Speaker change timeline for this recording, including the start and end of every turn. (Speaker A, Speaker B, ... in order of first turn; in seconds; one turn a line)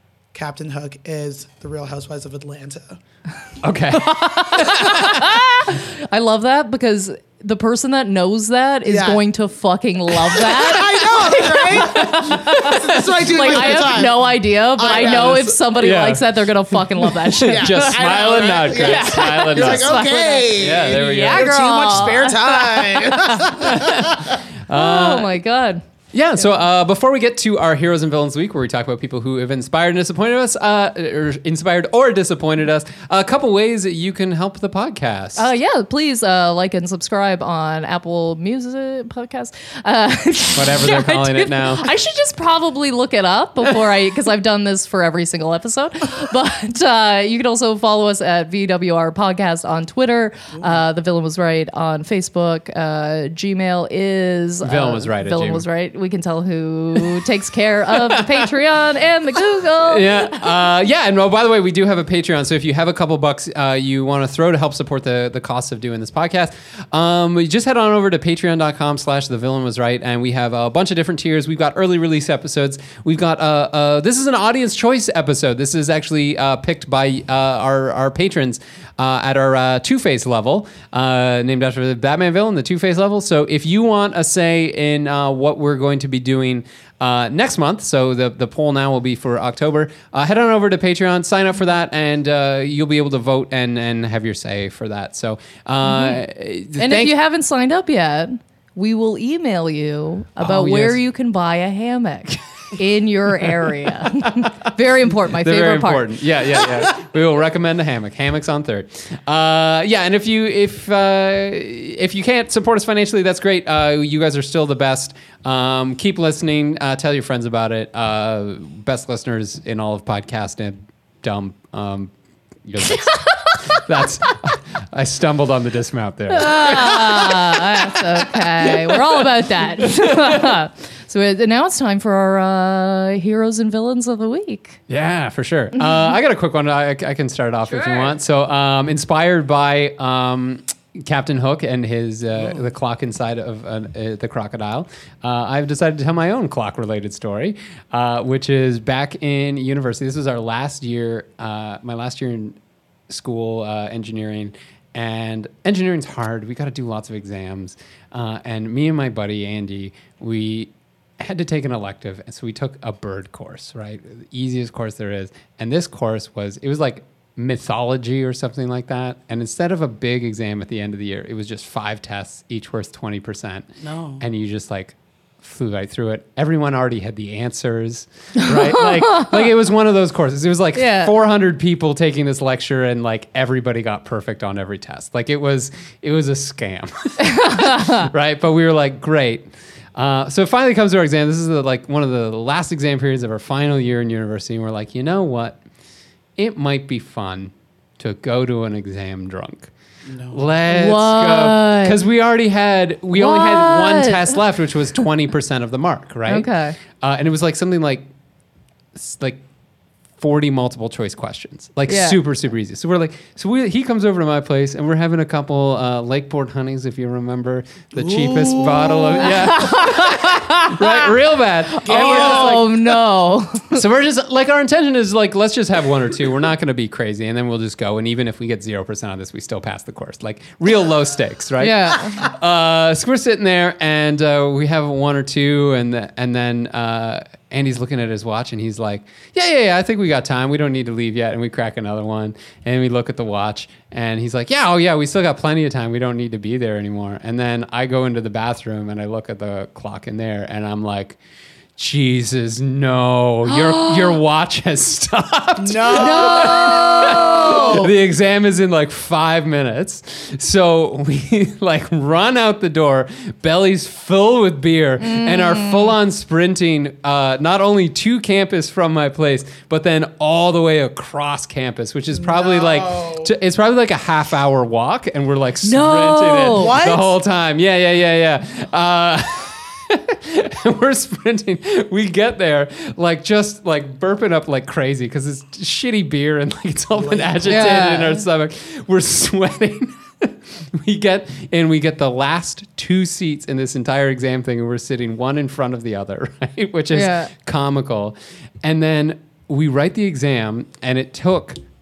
Speaker A: 0.3-3.0
Speaker B: 3.6-5.2
Speaker C: 3.9-18.0
Speaker A: 8.9-9.2
Speaker A: 10.3-15.6
Speaker B: 11.9-12.8
Speaker B: 13.4-13.9
Speaker B: 15.0-21.6
Speaker A: 17.4-24.4
Speaker C: 18.7-24.1
Speaker B: 23.6-25.3
Speaker C: 24.7-25.8
Speaker B: 26.1-35.5
Speaker C: 35.4-60.5
Speaker B: 40.5-41.9
Speaker B: 54.6-55.6
Speaker B: 57.0-57.2
Speaker B: 57.9-58.5
Speaker B: 59.8-97.1
Speaker C: 95.8-96.2
Speaker C: 96.8-106.1
Speaker B: 100.4-101.0
Speaker B: 104.0-122.1
Speaker B: 122.6-130.6
Speaker C: 126.3-134.8
Speaker B: 134.9-152.6
Speaker C: 137.7-138.1
Speaker B: 153.1-173.7
Speaker A: 173.8-174.2
Speaker B: 174.2-195.6
Speaker C: 178.5-179.4
Speaker C: 180.8-181.1
Speaker C: 187.2-188.1
Speaker B: 196.4-199.7
Speaker A: 200.1-200.4
Speaker B: 200.3-208.1
Speaker C: 200.7-202.0
Speaker C: 203.1-204.4
Speaker C: 206.3-206.8
Speaker B: 208.9-209.4
Speaker B: 210.2-222.8
Speaker C: 211.9-212.2
Speaker A: 218.0-219.5
Speaker C: 219.2-221.1
Speaker C: 221.7-223.8
Speaker A: 221.8-222.8
Speaker B: 223.7-251.2
Speaker C: 231.6-232.3
Speaker B: 251.8-301.6
Speaker C: 253.5-254.2
Speaker A: 255.6-257.8
Speaker C: 255.9-257.9
Speaker C: 265.0-265.9
Speaker A: 272.1-273.3
Speaker C: 275.6-276.8
Speaker A: 276.5-277.1
Speaker A: 286.9-287.9
Speaker C: 287.5-288.2
Speaker C: 296.9-297.3